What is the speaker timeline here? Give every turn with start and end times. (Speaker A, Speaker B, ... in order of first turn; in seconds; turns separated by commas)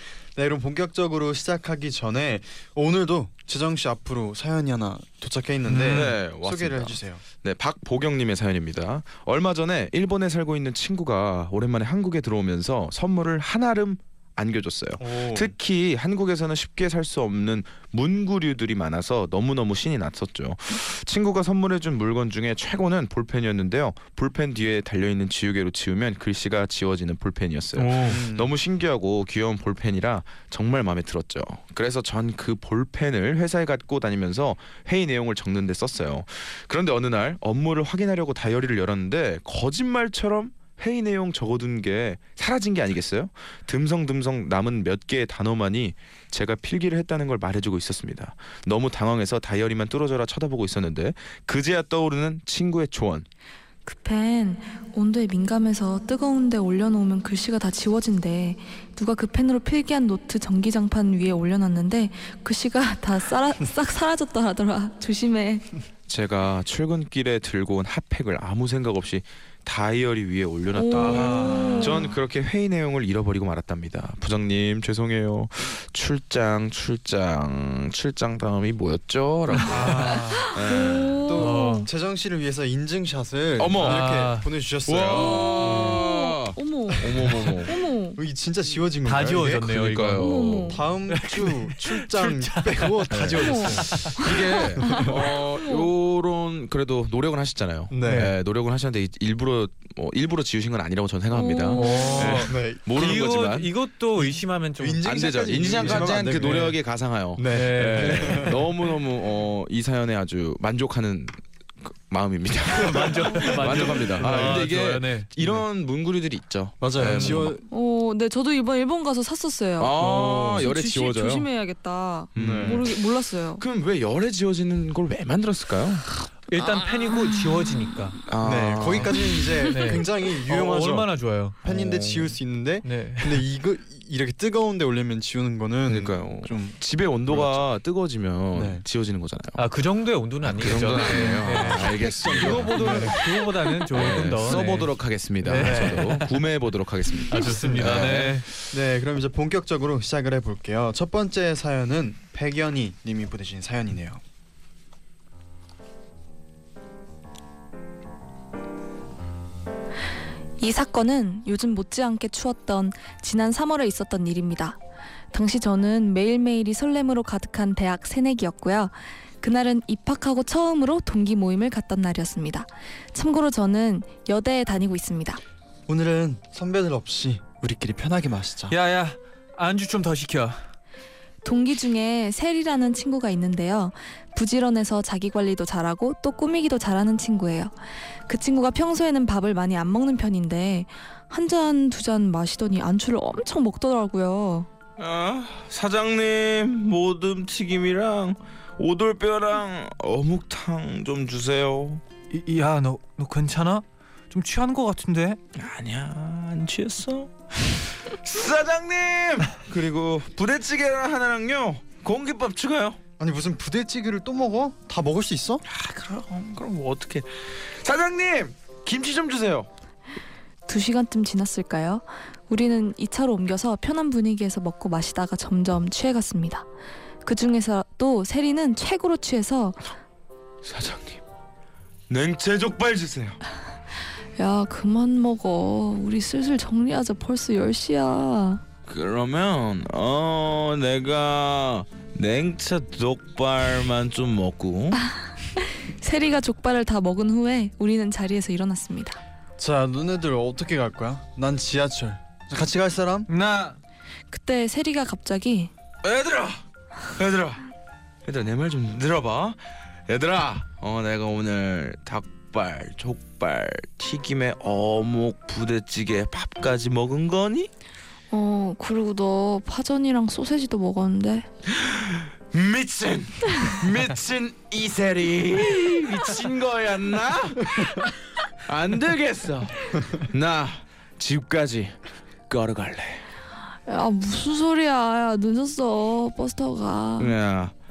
Speaker A: 0.3-7.2, Speaker B: 5.6-6.2, Speaker C: 5.9-53.2, Speaker A: 15.0-15.5, Speaker B: 27.8-28.2, Speaker A: 28.0-28.5, Speaker D: 53.9-65.7, Speaker C: 66.1-81.2, Speaker D: 70.7-72.1, Speaker B: 71.0-72.0, Speaker A: 71.1-71.8, Speaker B: 79.6-80.2, Speaker A: 79.7-80.5, Speaker D: 80.1-81.9, Speaker A: 81.2-86.0, Speaker B: 81.3-81.9, Speaker C: 83.6-84.2, Speaker B: 83.8-84.5, Speaker C: 84.8-87.7, Speaker D: 85.1-88.2, Speaker A: 86.9-89.8, Speaker B: 89.0-90.4, Speaker C: 89.7-90.8, Speaker D: 90.1-90.8, Speaker A: 90.7-94.1, Speaker B: 91.1-94.2, Speaker D: 93.4-95.9, Speaker C: 94.2-103.7, Speaker A: 95.0-95.2, Speaker A: 97.9-98.3, Speaker B: 98.0-98.3, Speaker D: 101.3-102.2, Speaker B: 101.7-105.0, Speaker A: 102.0-103.1, Speaker A: 104.2-106.7, Speaker C: 105.0-117.6, Speaker B: 105.8-106.8, Speaker A: 107.4-108.6, Speaker B: 107.4-108.6, Speaker B: 112.8-115.3, Speaker A: 113.0-114.6, Speaker A: 116.8-117.6, Speaker B: 117.0-117.4, Speaker D: 117.7-123.6, Speaker C: 119.8-121.5, Speaker C: 122.3-123.0, Speaker A: 122.3-122.8, Speaker C: 123.6-126.1, Speaker B: 126.5-128.2, Speaker D: 127.1-127.4, Speaker C: 128.2-129.3, Speaker A: 128.4-137.7, Speaker B: 129.7-131.6, Speaker C: 131.7-132.3, Speaker B: 132.8-133.4, Speaker C: 135.8-139.6, Speaker A: 138.5-138.8, Speaker B: 139.6-146.3, Speaker C: 140.4-143.2, Speaker A: 141.0-144.6, Speaker C: 143.9-148.5, Speaker A: 145.5-146.2, Speaker B: 147.2-148.5, Speaker A: 147.3-148.1, Speaker A: 148.7-154.2, Speaker D: 160.6-164.8, Speaker D: 165.3-175.4, Speaker A: 175.9-178.7, Speaker B: 178.7-180.6, Speaker D: 181.4-187.7, Speaker D: 188.3-194.7, Speaker C: 195.0-202.0, Speaker B: 202.3-205.4, Speaker C: 205.5-213.0, Speaker A: 213.2-215.6, Speaker C: 215.7-219.7, Speaker D: 220.7-226.7, Speaker D: 227.2-229.9, Speaker C: 230.6-231.2, Speaker C: 232.1-233.4, Speaker D: 234.4-238.6, Speaker C: 238.9-245.0, Speaker D: 245.6-249.2, Speaker A: 249.6-253.3, Speaker B: 253.3-253.8, Speaker D: 254.3-255.7, Speaker C: 256.0-257.6, Speaker C: 258.2-267.7, Speaker D: 268.3-271.5, Speaker C: 272.1-278.1, Speaker C: 278.6-283.2, Speaker D: 283.9-287.3, Speaker C: 287.2-287.7